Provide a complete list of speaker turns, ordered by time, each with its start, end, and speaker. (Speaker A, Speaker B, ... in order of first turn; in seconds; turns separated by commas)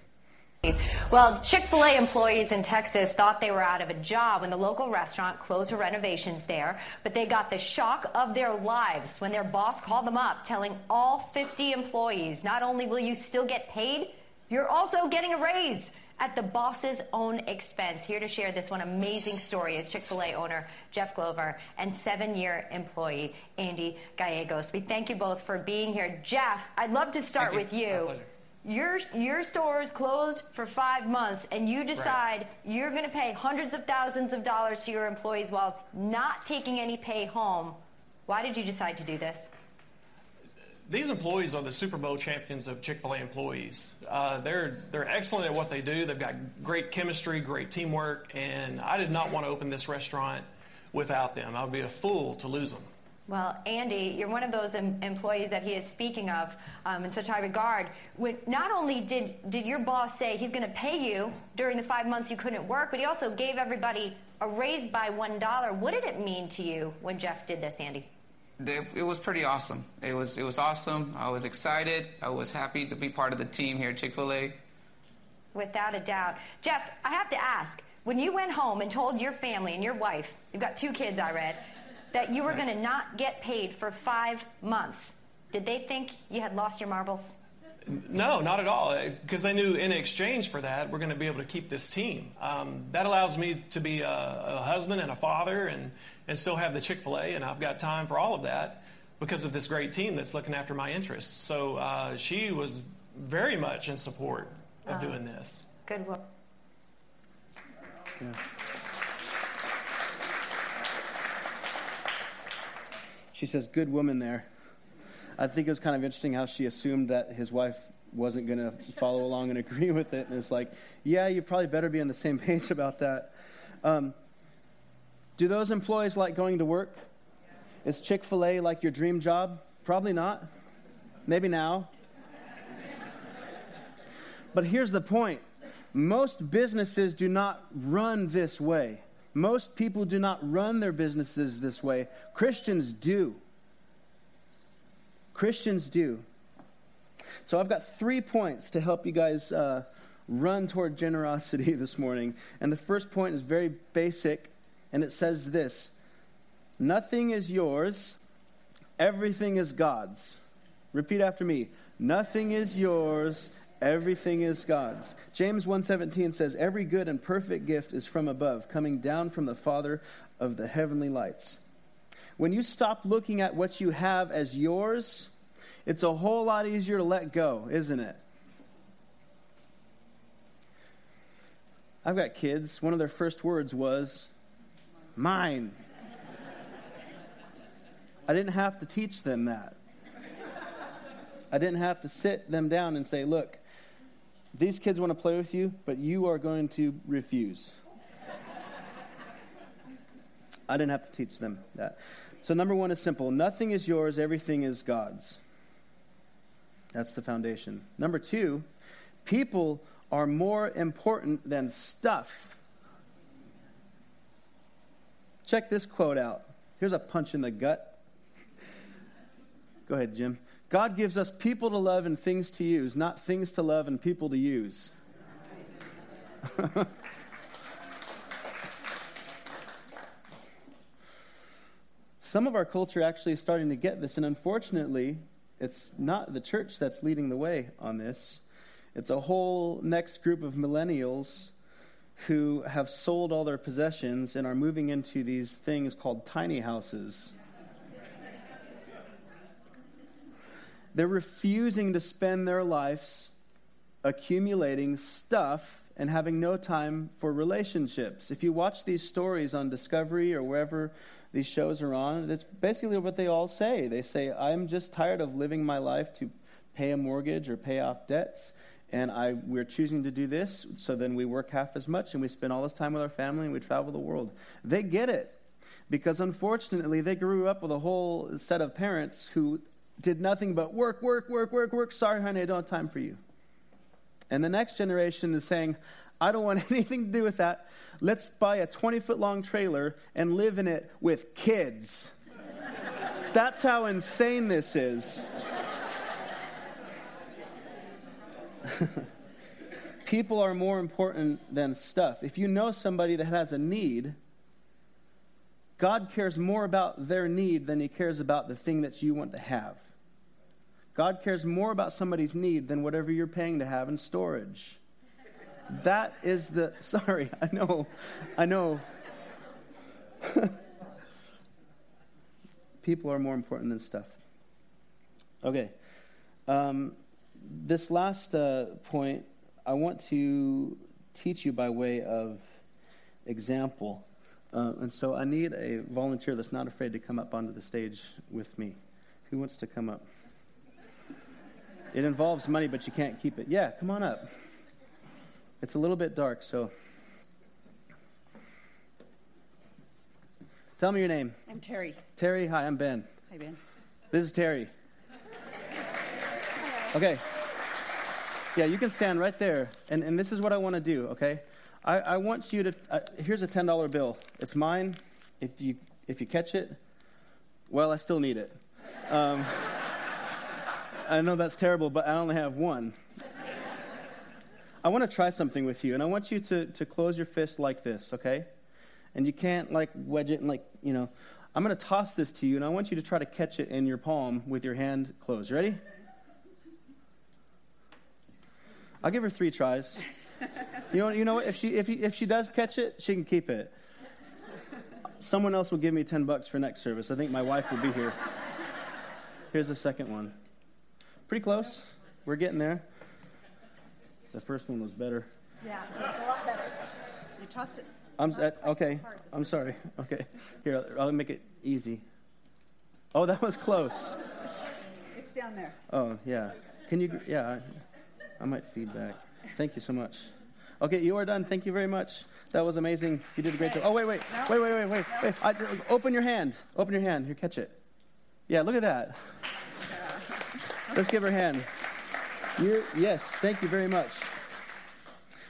Speaker A: 0.6-39.5, Speaker B: 27.4-28.3, Speaker B: 40.9-52.9, Speaker A: 53.3-68.1, Speaker C: 68.6-74.6, Speaker A: 75.5-81.6, Speaker A: 82.1-87.4, Speaker B: 87.8-105.7, Speaker A: 104.9-105.2, Speaker A: 105.8-106.2, Speaker D: 113.3-114.5, Speaker D: 115.4-124.1, Speaker D: 125.4-127.0, Speaker D: 127.8-130.5, Speaker D: 131.3-131.9, Speaker D: 134.5-143.4, Speaker D: 145.3-146.2, Speaker D: 147.4-155.9, Speaker D: 156.8-158.2, Speaker D: 159.0-171.6, Speaker D: 172.4-175.3, Speaker D: 175.8-178.2, Speaker D: 182.0-184.3, Speaker D: 185.2-185.8, Speaker D: 188.3-189.8, Speaker D: 191.5-193.6, Speaker D: 194.5-197.8, Speaker D: 200.7-205.4, Speaker D: 206.9-208.7, Speaker D: 209.2-212.6, Speaker D: 215.4-218.0, Speaker D: 219.9-224.9, Speaker D: 226.6-226.9, Speaker D: 232.2-238.4, Speaker D: 238.9-241.5, Speaker D: 242.2-247.3, Speaker D: 250.9-253.3, Speaker D: 254.0-283.2, Speaker D: 284.3-292.1, Speaker D: 293.3-295.2, Speaker D: 298.7-299.0, Speaker D: 300.0-304.2, Speaker D: 305.8-309.9, Speaker D: 310.9-314.8, Speaker D: 315.7-318.8, Speaker D: 320.2-320.5, Speaker D: 322.8-324.2, Speaker D: 325.4-325.7, Speaker D: 326.5-332.5, Speaker D: 333.2-338.8, Speaker D: 339.3-340.1, Speaker D: 341.9-344.3, Speaker D: 345.6-346.7, Speaker D: 350.8-351.4, Speaker E: 351.5-352.0, Speaker D: 352.1-353.1, Speaker E: 353.3-353.6, Speaker D: 354.1-354.7, Speaker D: 356.9-357.2, Speaker D: 358.5-366.8, Speaker D: 367.7-369.9, Speaker D: 371.0-372.9, Speaker D: 374.8-378.5, Speaker D: 379.1-385.8, Speaker D: 389.0-390.0, Speaker D: 390.9-393.7, Speaker D: 395.2-398.2, Speaker D: 399.5-400.4, Speaker D: 401.3-402.8, Speaker D: 404.3-405.3, Speaker E: 405.6-407.9, Speaker D: 408.2-412.0, Speaker D: 413.1-414.2, Speaker E: 415.1-415.8, Speaker D: 415.9-417.8, Speaker D: 418.4-427.8, Speaker D: 428.5-429.3, Speaker D: 430.9-431.7, Speaker D: 432.5-434.3